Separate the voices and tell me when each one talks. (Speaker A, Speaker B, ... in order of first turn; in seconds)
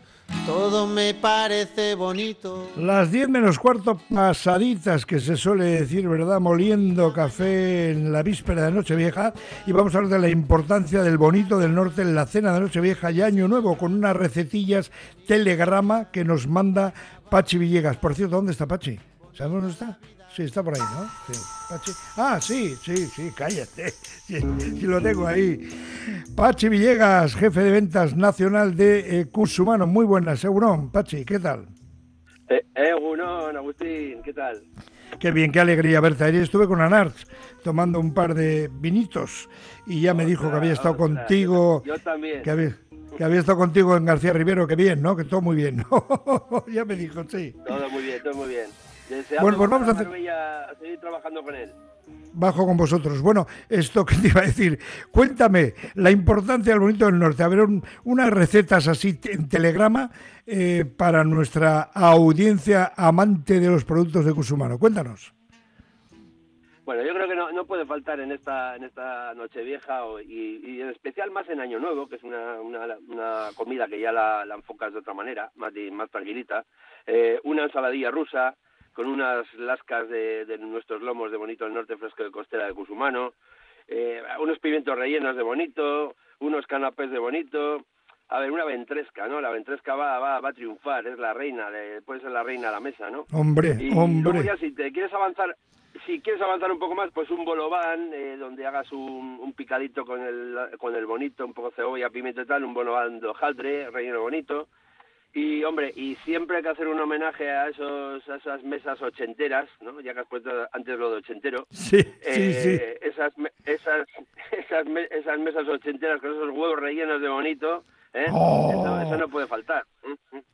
Speaker A: 0.4-2.7
Speaker B: 2.8-31.7, 35.2-41.9, 42.4-47.6, 49.4-50.1, 52.3-65.3, 93.3-94.5, 111.7-112.8, 118.3-119.2
Speaker C: 32.5-34.6, 40.1-42.5, 47.6-51.7, 66.8-83.3, 83.9-93.3, 93.8-104.7, 105.3-111.7, 112.2-120.4